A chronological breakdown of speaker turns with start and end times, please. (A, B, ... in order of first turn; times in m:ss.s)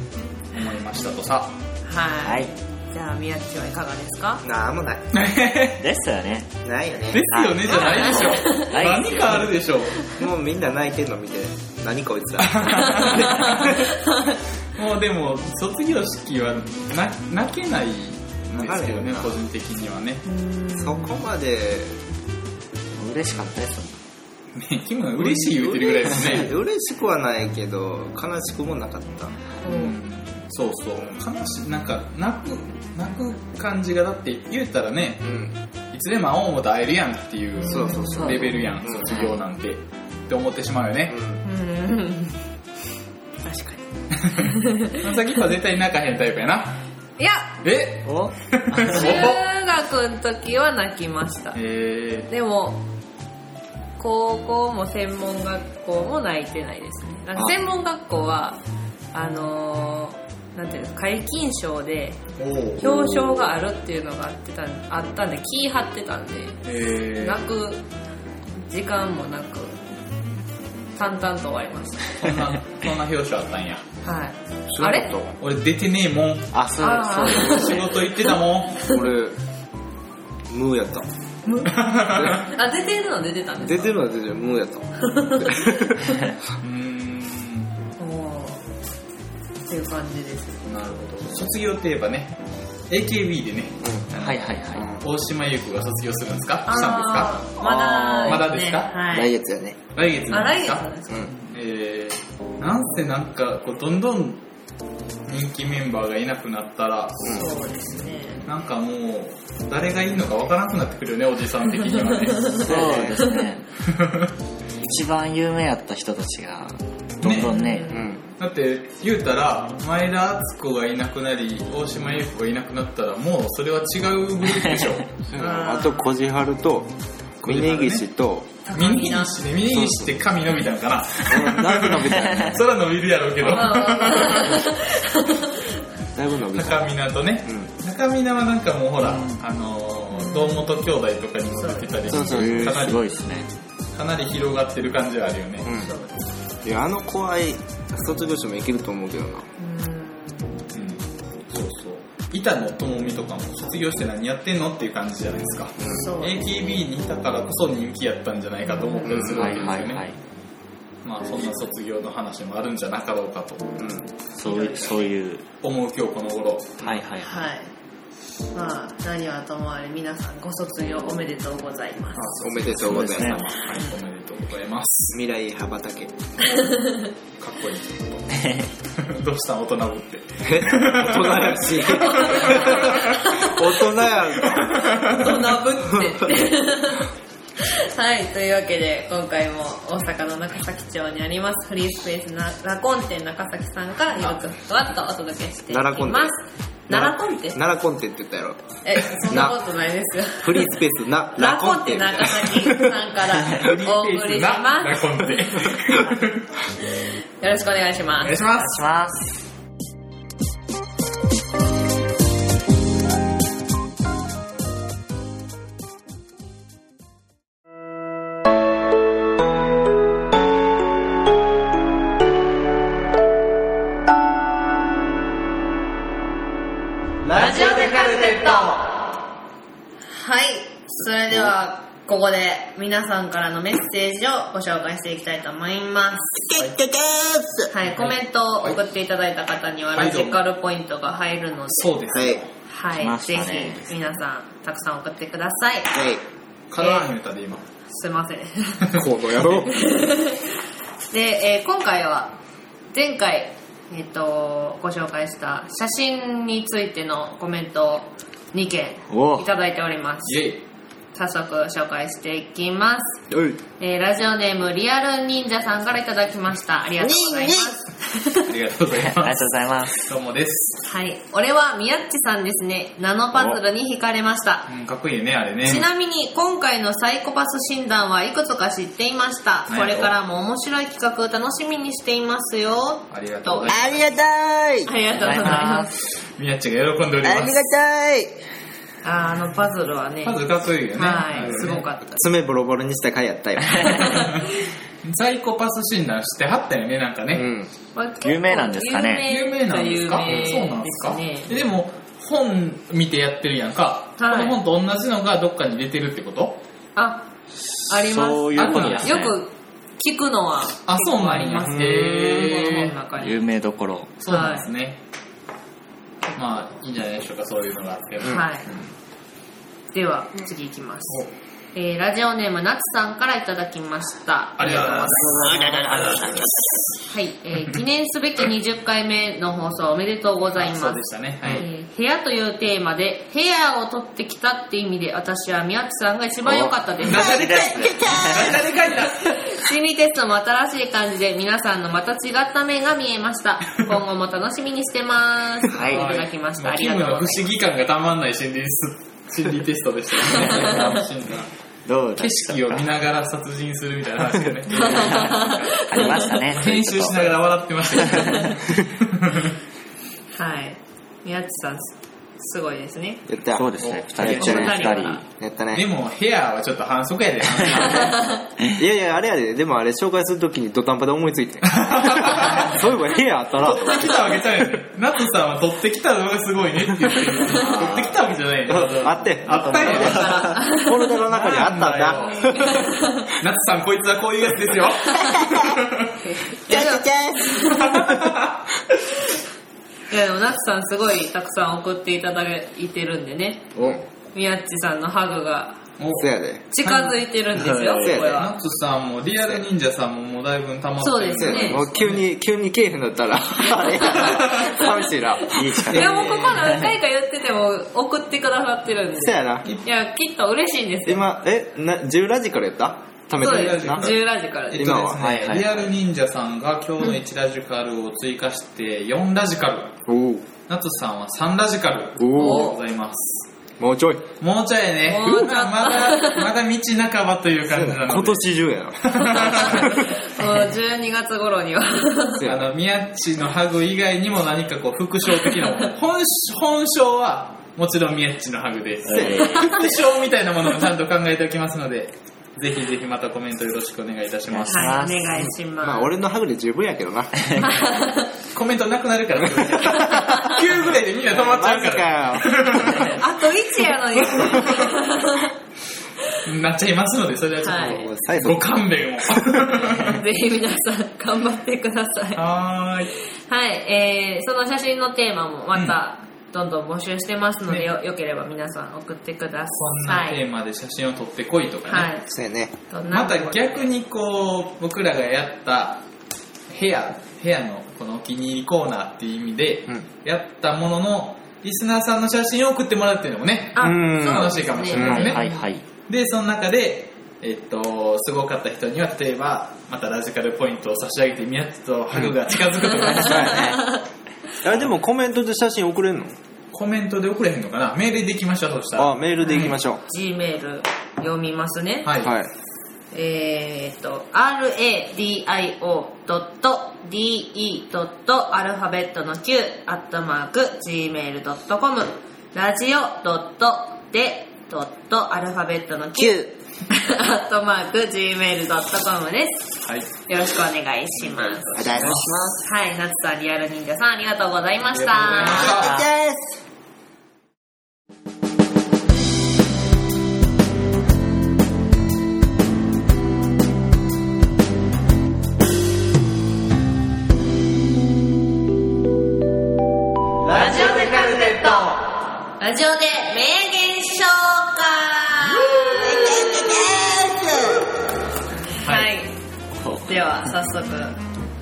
0:00.5-0:01.6 A
0:01.8-0:04.4 B
0:02.2-0:02.5 C
0:04.4-0:05.1 D
0:05.1-0:05.8 A
0:05.8-0:06.5 C
0:06.6-0:07.3 D
0:07.1-0:10.1 A
0:07.3-0:09.5 C
0:07.9-0:08.7 B
0:10.1-0:13.7 D
0:12.4-0:13.9 A
0:13.2-0:14.4 B
0:14.8-0:20.2 A
0:18.6-0:19.4 D
0:20.3-0:21.2 B
0:20.7-0:22.0 D
0:23.0-0:24.0 C
0:24.6-0:26.5 A
0:25.2-0:29.4 D
0:29.6-0:30.0 B
0:29.6-0:35.3 A
0:35.2-0:35.5 D
0:35.9-0:41.2 A
0:37.6-0:38.6 B
0:37.6-0:39.1 D
0:38.9-0:39.4 C
0:41.1-0:41.4 D
0:41.4-0:42.4 B
0:43.4-0:45.1 B
0:44.2-0:46.8 A
0:47.2-0:47.6 B
0:47.6-0:49.4 A
0:48.0-0:49.3 C
0:48.9-0:51.6 B
0:51.6-0:52.3 A
0:52.3-0:52.8 B
0:54.0-0:58.6 B
0:59.1-1:02.2 B
1:02.4-1:03.0 A
1:02.8-1:06.6 B
1:06.6-1:07.4 A
1:07.2-1:07.9 B
1:08.6-1:09.8 B
1:11.0-1:12.3 B
1:12.2-1:13.8 A
1:14.0-1:15.1 B
1:14.7-1:15.4 D
1:15.4-1:19.0 A
1:16.5-1:17.9 C
1:16.8-1:18.3 B
1:18.8-1:19.4 D
1:20.5-1:21.1 D
1:21.4-1:24.0 B
1:21.6-1:22.4 A
1:23.6-1:26.2 D
1:25.0-1:25.6 B
1:26.6-1:27.7 A
1:28.0-1:28.6 B
1:29.7-1:30.6 B
1:30.7-1:37.4 A
1:33.8-1:34.1 D
1:34.2-1:34.9 C
1:34.8-1:35.0 D
1:36.7-1:39.3 B
1:37.8-1:38.4 C
1:38.2-1:39.0 A
1:39.1-1:39.8 D
1:39.9-1:40.8 A
1:40.3-1:41.2 B
1:41.4-1:44.4 A
1:45.3-1:47.5 A
1:47.2-1:48.4 B
1:48.5-1:52.8 A
1:52.5-1:53.6 C
1:52.6-1:53.2 D
1:53.8-1:54.3 A
1:54.8-1:57.9 C
1:57.2-1:57.6 A
1:57.4-1:58.2 B
1:57.9-1:58.2 D
1:58.4-2:05.1 A
2:05.3-2:06.9 D
2:05.4-2:06.1 B
2:07.4-2:08.5 D
2:07.4-2:08.0 A
2:08.7-2:09.4 B
2:08.7-2:14.7 A
2:09.7-2:10.0 D
2:11.3-2:12.6 D
2:13.5-2:15.8 B
2:16.2-2:16.9 D
2:16.5-2:23.1 A
2:19.0-2:19.4 C
2:20.2-2:20.6 B
2:21.6-2:22.4 B
2:22.1-2:22.9 D
2:22.2-2:23.5 C
2:23.9-2:25.8 A
2:25.6-2:25.9 D
2:25.8-2:26.2 B
2:26.6-2:29.5 D
2:29.6-2:30.6 B
2:30.7-2:40.0 A
2:36.0-2:36.4 B
2:38.7-2:39.1 B
2:39.0-2:39.7 D
2:39.3-2:40.2 C
2:41.0-2:43.8 A
2:43.8-2:44.1 D
2:44.4-2:45.4 C
2:44.4-2:45.1 B
2:45.6-2:47.0 A
2:46.8-2:47.5 C
2:47.2-2:47.7 B
2:48.5-2:52.4 B
2:52.1-2:55.2 A
2:52.4-2:53.6 D
2:52.8-2:53.4 C
2:55.1-2:56.1 D
2:56.5-2:57.1 B
2:57.4-3:03.2 A
2:58.3-2:58.7 C
3:00.4-3:04.9 D
3:02.1-3:03.6 B
3:04.5-3:05.6 A
3:05.0-3:17.6 B
3:15.7-3:16.3 D
3:16.9-3:19.6 D
3:18.8-3:20.8 B
3:20.4-3:23.0 D
3:21.4-3:25.2 B
3:23.5-3:26.5 A
3:26.8-3:28.4 B
3:28.2-3:28.8 A
3:28.5-3:29.3 C
3:47.3-3:49.0 B
3:50.1-3:56.4 B
3:56.4-3:57.7 D
3:57.7-4:01.9 B
3:57.9-3:58.8 A
3:59.9-4:00.4 A
4:01.7-4:02.5 A
4:02.1-4:02.4 D
4:02.7-4:05.9 B
4:03.0-4:03.9 C
4:05.9-4:06.2 D
4:06.7-4:07.6 A
4:06.8-4:07.1 B
4:07.9-4:08.9 B
4:08.8-4:09.7 A
4:08.9-4:09.8 D
4:09.7-4:10.6 B
4:11.1-4:12.4 B
4:12.9-4:20.4 B
4:19.1-4:19.5 C
4:20.2-4:20.6 A
4:21.1-4:23.2 B
4:23.3-4:23.6 D
4:23.8-4:28.5 B
4:27.0-4:27.7 D
4:28.5-4:29.4 A
4:28.9-4:30.0 C
4:30.0-4:30.8 A
4:30.8-4:34.7 B
4:34.7-4:35.9 A
4:35.6-4:43.8 B
4:39.7-4:40.1 A
4:43.1-4:44.1 A
4:43.7-4:44.9 D
4:44.9-4:45.9 B
4:45.2-4:45.9 C
4:46.4-4:47.6 A
4:47.2-4:48.4 D
4:49.0-4:50.4 B
4:50.2-4:51.8 A
4:50.9-4:52.2 B
4:51.4-4:54.3 D
4:53.8-4:57.5 A
4:57.3-4:57.7 D
4:58.0-5:01.5 B
4:58.2-4:59.3 C
4:59.3-5:06.6 A
5:04.2-5:04.6 B
5:07.0-5:07.3 B
5:07.9-5:13.4 B
5:08.0-5:09.4 C
5:08.6-5:09.4 A
5:10.8-5:13.0 A
5:11.7-5:12.5 D
5:13.2-5:14.2 C
5:14.2-5:15.0 A
5:14.3-5:14.7 B
5:16.4-5:18.5 A
5:18.2-5:18.7 B
5:19.9-5:21.2 B
5:21.7-5:26.4 B
5:24.6-5:25.6 A
5:25.6-5:26.2 D
5:27.1-5:37.5 B
5:30.6-5:31.7 A
5:36.5-5:38.7 D
5:37.0-5:39.4 A
5:37.1-5:38.6 C
5:39.2-5:47.5 B
5:45.7-5:46.1 C
5:45.9-5:51.5 A
5:50.3-5:50.9 C
5:50.4-5:51.0 B
5:51.9-5:52.9 C
5:52.2-5:55.8 A
5:54.7-5:56.4 B
5:54.9-5:57.4 C
5:56.5-5:59.6 A
5:57.9-5:58.5 C
6:00.3-6:03.2 B
6:03.3-6:05.9 D
6:03.6-6:05.2 C
6:03.8-6:04.9 A
6:04.2-6:05.2 B
6:05.7-6:08.3 A
6:07.7-6:08.4 B
6:08.8-6:14.2 D
6:11.7-6:12.9 A
6:13.6-6:20.5 A
6:17.5-6:22.8 D
6:19.5-6:20.4 C
6:19.7-6:21.2 B
6:21.3-6:26.2 A
6:22.3-6:23.3 B
6:25.2-6:25.8 D
6:26.2-6:28.0 B
6:26.6-6:28.4 D
6:27.7-6:28.6 A
6:30.1-6:33.7 B
6:33.8-6:34.0 D
6:34.3-6:35.8 B
6:36.0-6:37.2 A
6:36.2-6:36.6 D
6:36.7-6:38.5 B
6:37.6-6:38.3 C
6:38.0-6:38.4 D
6:38.2-6:42.2 A
6:41.0-6:41.9 B
6:41.4-6:46.6 D
6:43.8-6:45.0 B
6:44.1-6:44.8 A
6:45.5-6:46.9 C
6:45.8-6:51.3 B
6:46.0-6:46.5 A
6:49.2-6:49.7 D
6:51.1-6:54.2 D
6:53.4-7:00.0 A
6:53.4-6:55.1 B
6:54.7-6:55.2 D
6:55.2-6:55.9 C
7:00.1-7:00.5 D
7:00.7-7:03.5 A
7:02.2-7:02.8 D
7:02.3-7:02.8 B
7:03.8-7:04.3 D
7:04.4-7:08.5 A
7:05.1-7:06.5 B
7:07.7-7:10.1 D
7:09.0-7:10.2 A
7:09.2-7:12.5 B
7:12.4-7:12.7 D
7:12.4-7:25.0 A
7:19.0-7:19.8 C
7:19.1-7:19.5 D
7:19.4-7:19.9 B
7:24.5-7:25.4 C
7:24.7-7:26.1 B
7:25.4-7:27.7 D
7:27.6-7:28.3 B
7:28.5-7:33.2 A
7:29.5-7:30.4 D
7:30.1-7:30.5 B
7:31.3-7:33.2 D
7:33.0-7:35.6 B
7:34.4-7:34.9 A
7:36.4-7:40.2 A
7:37.6-7:38.1 B
7:37.8-7:38.8 D
7:39.3-7:39.7 D
7:40.0-7:42.4 B
7:42.4-7:43.1 A
7:43.2-7:50.4 B
7:49.8-7:52.1 A
7:51.9-7:52.3 B
7:52.3-7:52.7 D
7:52.9-7:53.8 B
7:53.1-7:56.0 A
7:56.7-8:05.5 A
8:03.8-8:05.6 B
8:03.8-8:05.4 D
8:04.9-8:05.8 C
8:06.1-8:13.8 A
8:13.1-8:13.9 D
8:13.5-8:14.0 B
8:14.6-8:16.3 D
8:16.7-8:19.7 A
8:19.0-8:20.0 D
8:19.4-8:22.1 B
8:22.0-8:22.4 A
8:22.2-8:22.5 D
8:23.1-8:39.7 B
8:36.2-8:36.5 D
8:39.8-8:40.1 A
8:40.3-8:41.8 B
8:41.2-8:42.3 A
8:41.8-8:42.6 D
8:42.0-8:42.4 C
8:42.6-8:45.8 B
8:44.9-8:46.0 A
8:45.4-8:46.6 D
8:45.7-8:46.0 C
9:00.5-9:02.1 B
9:02.6-9:06.7 B
9:05.9-9:07.9 D
9:08.8-9:09.3 B
9:08.8-9:09.1 A
9:09.8-9:10.1 C
9:10.1-9:11.2 B